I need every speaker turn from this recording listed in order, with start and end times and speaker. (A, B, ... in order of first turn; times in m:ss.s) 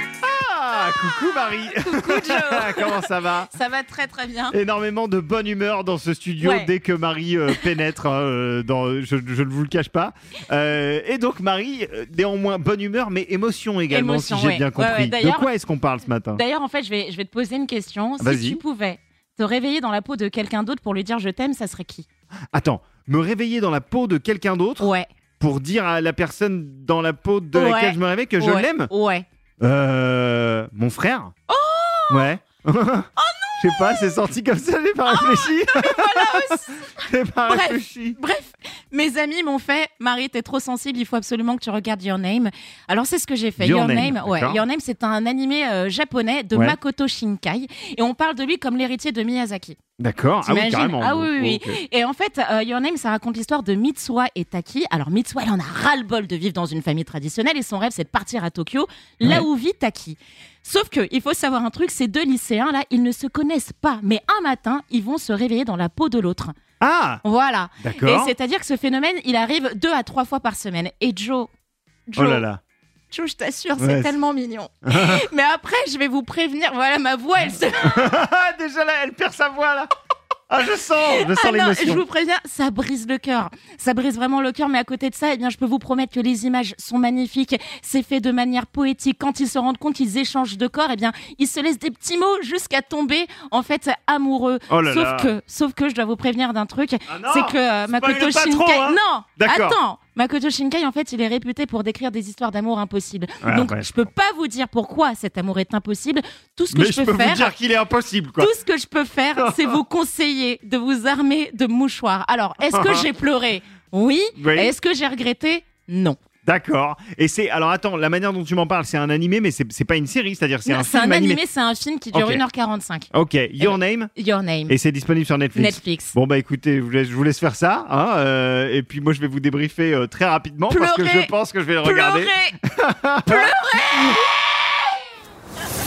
0:00.2-0:03.5 A
0:01.8-0:04.6 B
0:04.5-0:16.4 A
0:06.4-0:06.7 B
0:07.5-0:07.7 B
0:13.9-0:15.5 B
0:16.3-0:22.1 B
0:18.2-0:18.6 A
0:22.5-0:28.9 A
0:24.8-0:25.1 B
0:27.5-0:29.2 B
0:29.6-0:31.3 A
0:31.5-0:32.3 B
0:32.1-0:33.1 A
0:33.2-0:33.9 B
0:33.6-0:38.2 A
0:35.0-0:36.7 B
0:37.4-0:49.8 B
0:43.6-0:44.6 A
0:50.0-0:51.8 A
0:50.4-1:06.6 B
0:59.2-0:59.5 A
1:06.8-1:07.2 A
1:07.2-1:11.5 B
1:07.8-1:08.3 A
1:12.1-1:12.4 B
1:12.2-1:12.6 A
1:13.1-1:18.1 B
1:13.8-1:14.1 A
1:14.8-1:15.2 A
1:17.8-1:19.9 A
1:20.5-1:22.0 A
1:21.0-1:47.5 B
1:34.7-1:35.3 A
1:37.1-1:39.8 A
1:43.4-1:44.1 A
1:46.7-1:48.5 A
1:48.4-1:56.2 B
1:49.4-1:49.8 A
1:52.7-1:53.1 A
1:54.4-1:54.7 A
1:56.4-2:01.4 A
2:00.6-2:04.7 B
2:02.1-2:02.4 A
2:03.1-2:04.1 A
2:04.7-2:14.2 A
2:05.5-2:06.1 B
2:10.7-2:12.6 B
2:13.2-2:14.3 B